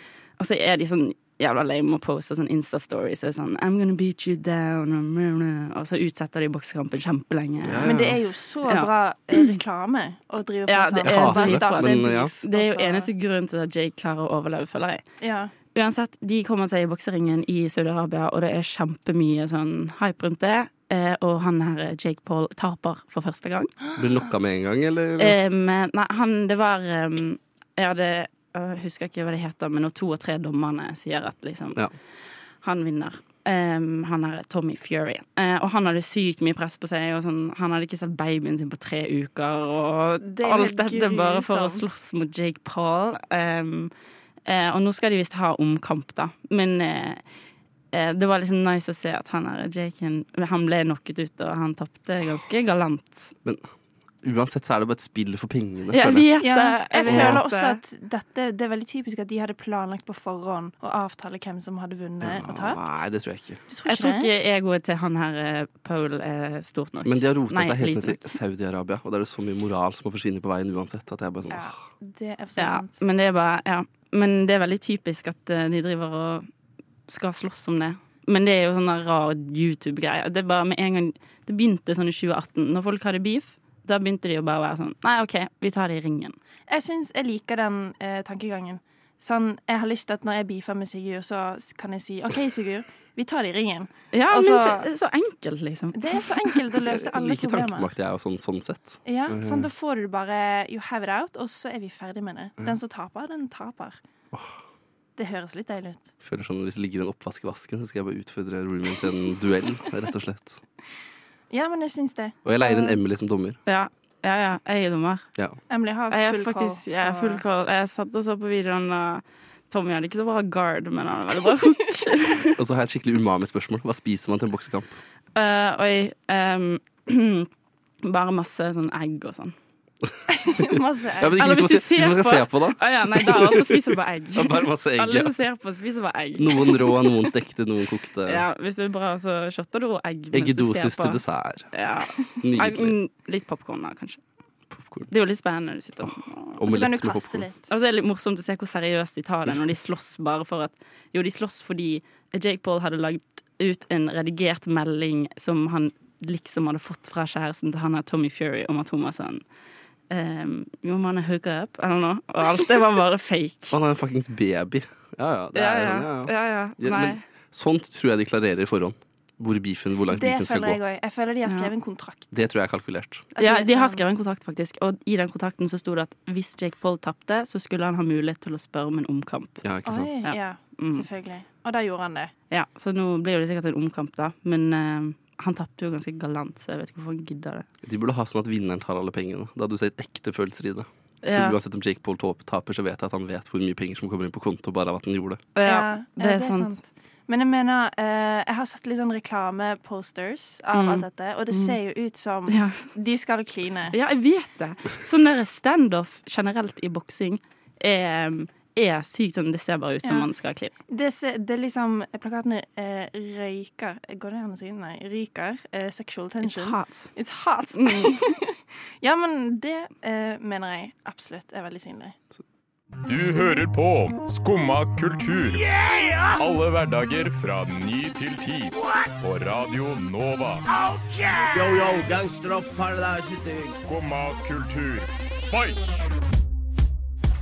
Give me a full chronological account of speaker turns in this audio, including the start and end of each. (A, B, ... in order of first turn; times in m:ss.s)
0:00.4-0:07.9 A
0:07.6-0:08.2 B
0:07.8-0:13.1 C
0:10.7-0:15.0 A
0:11.0-0:12.3 B
0:15.2-0:15.5 C
0:15.7-0:23.7 A
0:24.0-0:25.4 B
0:25.2-0:31.8 A
0:32.6-0:43.9 A
0:40.2-0:41.8 C
0:44.4-0:47.2 A
0:47.9-0:53.3 A
0:54.2-0:56.3 B
0:55.9-0:57.8 A
0:56.4-1:02.8 C
0:57.0-0:57.4 B
1:02.2-1:03.6 B
1:03.7-1:04.3 C
1:03.8-1:08.3 A
1:07.0-1:11.7 B
1:11.5-1:13.0 C
1:12.6-1:16.5 A
1:17.1-1:26.4 A
1:26.7-1:34.9 C
1:34.1-1:36.5 A
1:35.9-1:37.9 C
1:36.9-1:39.7 B
1:39.0-1:44.0 C
1:44.3-1:44.6 B
1:45.2-1:46.1 C
1:46.2-1:50.6 B
1:51.5-1:53.0 C
1:52.4-1:53.6 B
1:53.6-1:55.2 A
1:55.7-1:57.4 C
1:56.1-2:02.5 A
2:02.5-2:05.0 B
2:05.3-2:07.5 A
2:08.0-2:09.5 A
2:10.1-2:10.7 B
2:10.4-2:11.4 C
2:11.2-2:13.8 B
2:11.4-2:16.8 A
2:14.3-2:15.3 B
2:16.4-2:18.4 B
2:18.3-2:24.2 A
2:20.3-2:21.7 B
2:22.4-2:23.0 B
2:24.7-2:25.1 B
2:25.1-2:26.6 A
2:26.0-2:27.4 B
2:26.6-2:27.7 C
2:27.7-2:39.4 A
2:40.1-2:43.8 A
2:43.7-2:50.8 B
2:45.5-2:47.2 A
2:50.1-2:52.5 C
2:52.3-2:53.3 B
2:53.3-2:54.0 C
2:53.4-3:01.0 A
2:59.6-3:00.2 B
2:59.8-3:02.3 C
3:02.5-3:07.7 A
3:07.8-3:15.4 B
3:11.2-3:11.6 A
3:15.5-3:16.7 A
3:15.6-3:24.0 C
3:20.7-3:21.7 A
3:22.5-3:22.8 A
3:23.9-3:30.7 A
3:30.9-3:42.2 C
3:36.4-3:37.1 A
3:37.8-3:38.4 A
3:43.0-3:45.7 D
3:46.3-3:50.6 D
3:51.5-3:53.8 E
3:53.8-3:55.8 D